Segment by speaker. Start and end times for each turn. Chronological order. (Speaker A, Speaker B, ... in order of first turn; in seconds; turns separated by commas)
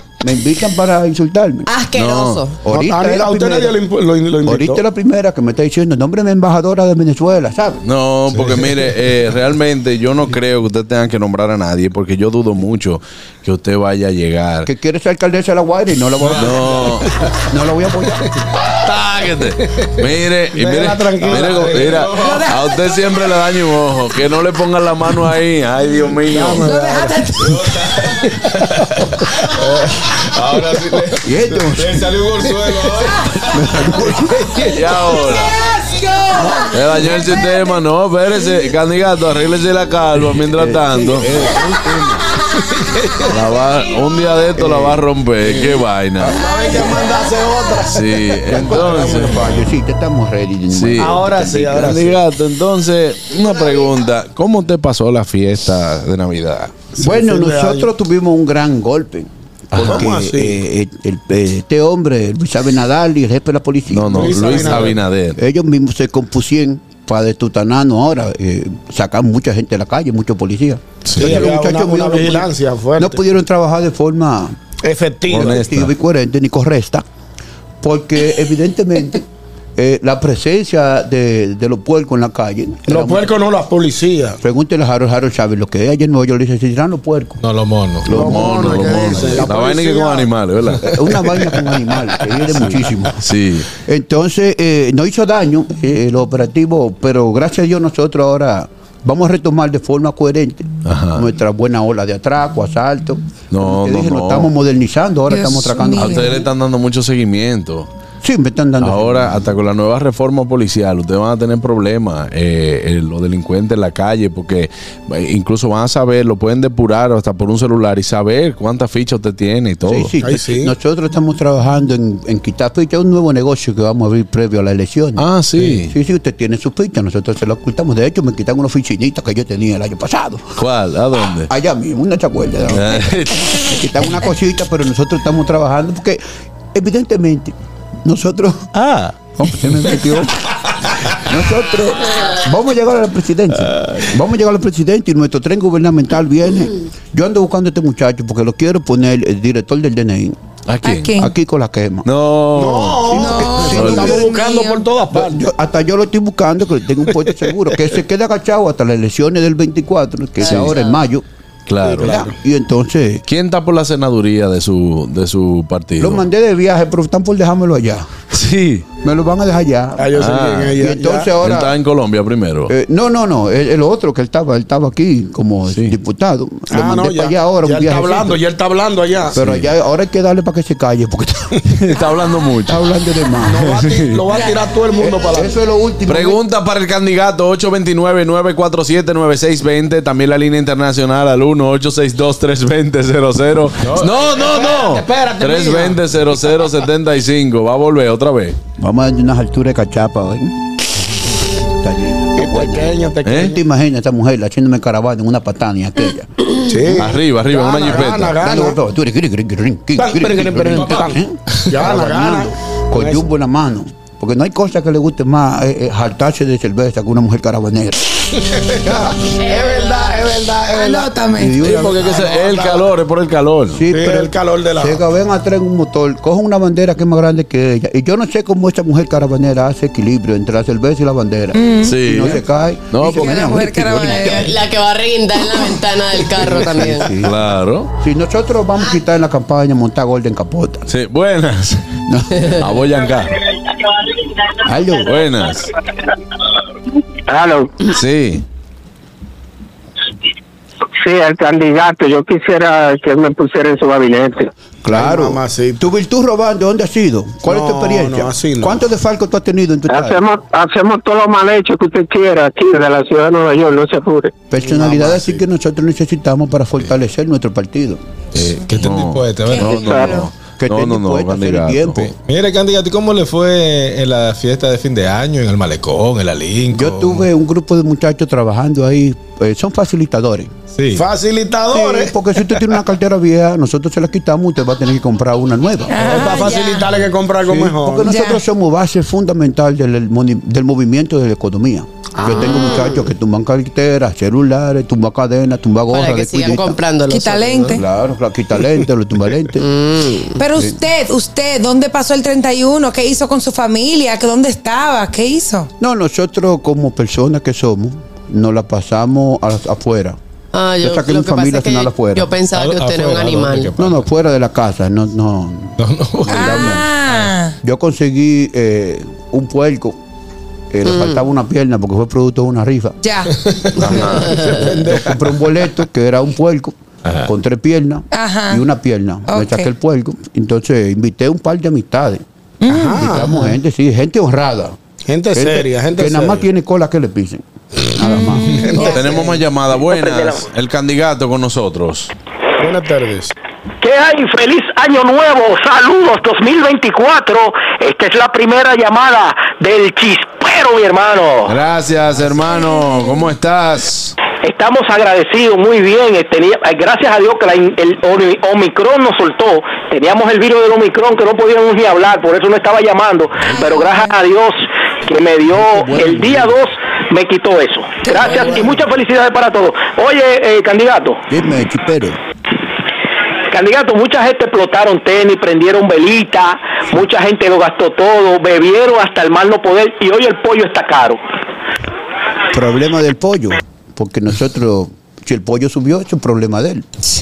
Speaker A: 0.2-1.7, Speaker B: 1.7-2.6, Speaker C: 1.9-2.4, Speaker A: 2.6-3.8, Speaker D: 2.7-4.8, Speaker A: 4.4-7.8, Speaker C: 7.8-14.7, Speaker E: 8.3-8.7, Speaker A: 14.7-16.8, Speaker E: 16.2-17.1, Speaker C: 16.3-17.1, Speaker A: 17.4-18.3, Speaker C: 18.6-26.7, Speaker D: 20.6-21.9, Speaker E: 21.2-22.5, Speaker F: 22.2-22.7, Speaker D: 26.3-27.2, Speaker F: 26.6-27.6, Speaker E: 27.3-33.5, Speaker A: 31.2-32.1, Speaker A: 33.5-34.6, Speaker E: 34.0-35.0, Speaker C: 34.6-35.5, Speaker C: 36.7-41.5, Speaker A: 40.5-42.3, Speaker E: 42.7-43.3, Speaker C: 43.3-46.4, Speaker A: 44.5-45.0, Speaker D: 46.3-49.5, Speaker C: 47.9-49.5, Speaker A: 48.5-52.0, Speaker C: 50.7-56.7, Speaker D: 51.0-52.1, Speaker D: 57.0-57.9, Speaker A: 57.0-74.5, Speaker C: 59.7-60.1, Speaker D: 59.8-60.6, Speaker C: 63.9-65.4, Speaker D: 64.1-65.0, Speaker C: 71.0-71.4, Speaker D: 71.2-73.2, Speaker D: 74.8-75.6, Speaker C: 75.3-75.9, Speaker A: 75.4-77.0, Speaker A: 77.8-79.2, Speaker A: 79.8-83.3, Speaker D: 82.9-84.4, Speaker A: 84.4-87.4, Speaker E: 87.4-88.2, Speaker A: 88.1-89.1, Speaker D: 88.1-90.3, Speaker C: 88.1-91.3, Speaker A: 90.8-93.2, Speaker C: 93.2-93.7, Speaker A: 93.7-106.4, Speaker C: 100.8-101.3, Speaker C: 103.5-104.5, Speaker F: 105.3-106.4, Speaker C: 105.9-107.9, Speaker A: 108.2-109.4, Speaker C: 108.8-120.2, Speaker A: 119.9-125.2, Speaker D: 120.2-120.7, Speaker C: 125.2-125.9, Speaker A: 125.8-130.6, Speaker C: 130.6-131.5, Speaker A: 131.5-136.2, Speaker C: 132.7-133.8, Speaker A: 136.7-138.7, Speaker E: 138.8-139.1, Speaker A: 139.4-140.4, Speaker A: 141.1-150.3, Speaker C: 150.7-151.2, Speaker F: 150.8-151.3, Speaker A: 151.2-152.1, Speaker C: 152.0-154.2, Speaker D: 152.5-155.4, Speaker A: 153.1-154.3, Speaker F: 153.1-154.8, Speaker A: 155.1-161.2, Speaker B: 160.4-161.0, Speaker C: 160.4-160.7, Speaker C: 161.7-162.2, Speaker D: 161.8-162.3, Speaker A: 161.9-163.2, Speaker C: 163.3-166.2, Speaker A: 166.0-168.1, Speaker C: 168.3-168.9, Speaker A: 169.0-170.1, Speaker D: 170.0-171.3, Speaker C: 170.1-170.8, Speaker A: 170.7-171.7, Speaker C: 171.4-172.7, Speaker A: 172.7-178.4, Speaker C: 175.7-176.0, Speaker D: 176.7-179.4, Speaker A: 179.3-181.5, Speaker C: 179.3-179.7, Speaker C: 181.7-182.8, Speaker A: 182.7-183.6, Speaker D: 183.4-185.5, Speaker C: 183.6-184.2, Speaker A: 185.0-186.4, Speaker C: 186.1-198.6, Speaker D: 193.9-196.0, Speaker A: 198.8-200.5, Speaker A: 201.8-206.3, Speaker D: 202.3-203.6, Speaker C: 203.2-203.5, Speaker D: 206.6-208.8, Speaker C: 206.9-208.4, Speaker A: 208.3-218.1, Speaker D: 210.0-213.2, Speaker D: 218.5-222.9, Speaker A: 218.8-219.1, Speaker B: 219.4-220.3, Speaker F: 220.7-221.6, Speaker A: 221.3-222.0, Speaker C: 221.6-223.8, Speaker A: 223.7-234.5, Speaker D: 223.9-225.0, Speaker F: 231.5-231.9, Speaker C: 231.8-233.5, Speaker F: 233.1-234.5, Speaker B: 234.1-237.1, Speaker A: 236.6-237.3, Speaker C: 236.6-237.9, Speaker A: 237.9-240.8, Speaker C: 240.9-243.3, Speaker A: 242.1-242.5, Speaker A: 244.6-245.1, Speaker C: 245.0-245.7, Speaker C: 247.9-248.4, Speaker A: 254.8-260.2, Speaker D: 254.9-255.8, Speaker D: 257.4-258.8, Speaker A: 264.5-268.0, Speaker D: 264.6-265.4, Speaker E: 268.4-270.1, Speaker C: 268.4-272.1, Speaker F: 269.4-270.3, Speaker A: 270.6-272.1, Speaker E: 272.2-277.2, Speaker A: 276.7-280.5, Speaker E: 280.7-281.1, Speaker D: 280.9-282.1, Speaker A: 281.7-286.4, Speaker F: 285.9-286.8, Speaker D: 286.0-288.1, Speaker A: 287.4-296.8, Speaker F: 288.0-288.4, Speaker B: 292.2-293.0, Speaker F: 292.5-292.8, Speaker B: 295.9-297.8, Speaker F: 297.1-297.8, Speaker A: 297.7-299.6, Speaker B: 299.6-300.4, Speaker F: 300.4-305.7, Speaker A: 305.8-310.2, Speaker B: 310.5-313.7, Speaker A: 310.8-312.3, Speaker E: 312.5-314.1, Speaker A: 313.8-315.8, Speaker E: 315.8-317.3, Speaker F: 316.3-317.5, Speaker A: 316.3-316.9, Speaker A: 317.6-319.9, Speaker A: 320.7-323.0, Speaker B: 320.8-321.2, Speaker F: 323.0-323.3, Speaker E: 323.3-325.6, Speaker C: 323.8-324.3, Speaker A: 324.6-326.7, Speaker A: 327.2-332.2, Speaker F: 328.1-328.6, Speaker F: 329.3-329.7, Speaker F: 332.6-333.3, Speaker D: 332.7-333.4, Speaker A: 333.0-334.8, Speaker D: 335.1-336.4, Speaker A: 335.3-337.4, Speaker A: 337.9-338.6, Speaker F: 338.0-338.9, Speaker D: 338.5-339.3, Speaker C: 338.8-342.1, Speaker D: 342.6-343.3, Speaker G: 343.8-351.5, Speaker C: 351.5-354.1, Speaker G: 354.4-371.2, Speaker F: 363.4-364.1, Speaker A: 365.5-366.6, Speaker F: 368.0-368.6, Speaker A: 371.3-372.2, Speaker G: 373.5-381.2, Speaker A: 382.5-386.9